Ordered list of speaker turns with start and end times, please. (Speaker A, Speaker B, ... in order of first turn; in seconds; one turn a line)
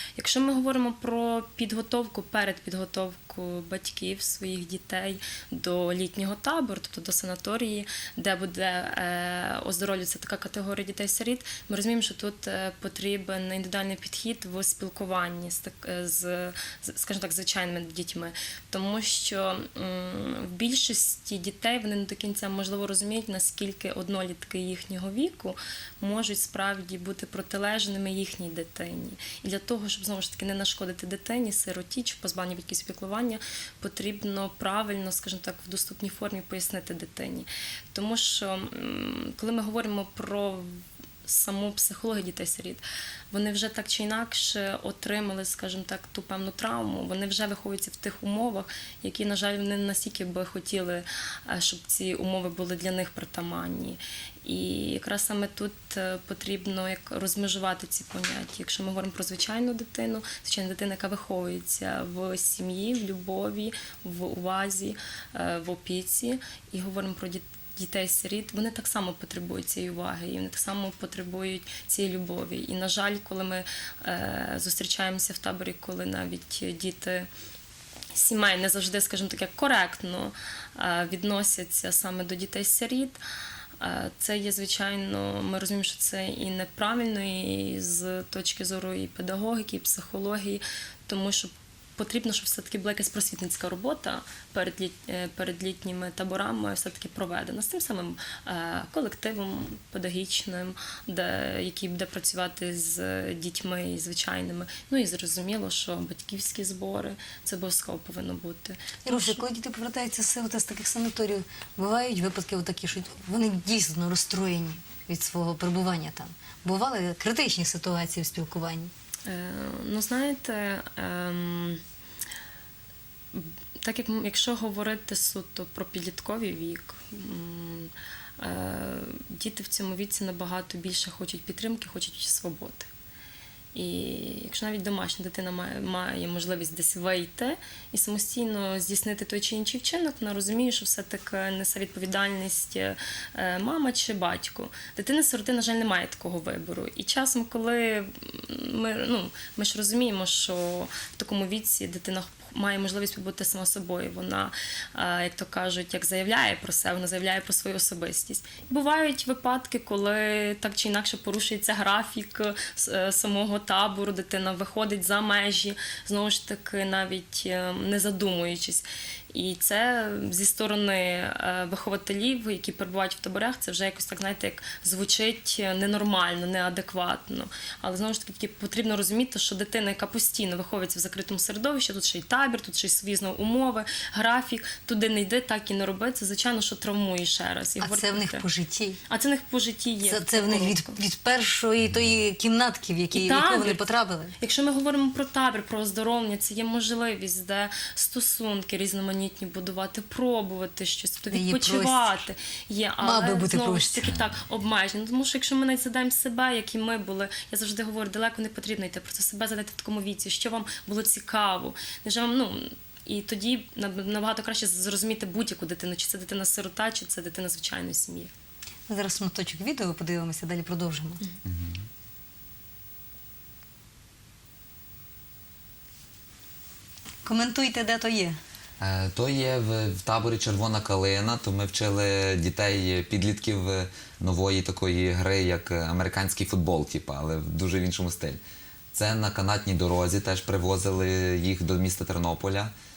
Speaker A: 0.1-77.3
Speaker A: 78.1-83.2
Speaker A: 83.8-109.4
Speaker B: 109.0-118.9
Speaker A: 119.3-121.8
Speaker A: 123.3-132.9
Speaker A: 133.7-188.4
Speaker B: 187.8-189.0
Speaker A: 189.1-191.0
Speaker B: 190.0-194.3
Speaker A: 193.1-193.8
Speaker A: 194.4-218.3
Speaker B: 201.3-202.3
Speaker B: 203.0-204.1
Speaker C: 204.0-204.3
Speaker B: 218.9-221.2
Speaker C: 221.4-221.9
Speaker B: 227.2-228.4
Speaker C: 228.8-238.4
Speaker C: 238.9-242.7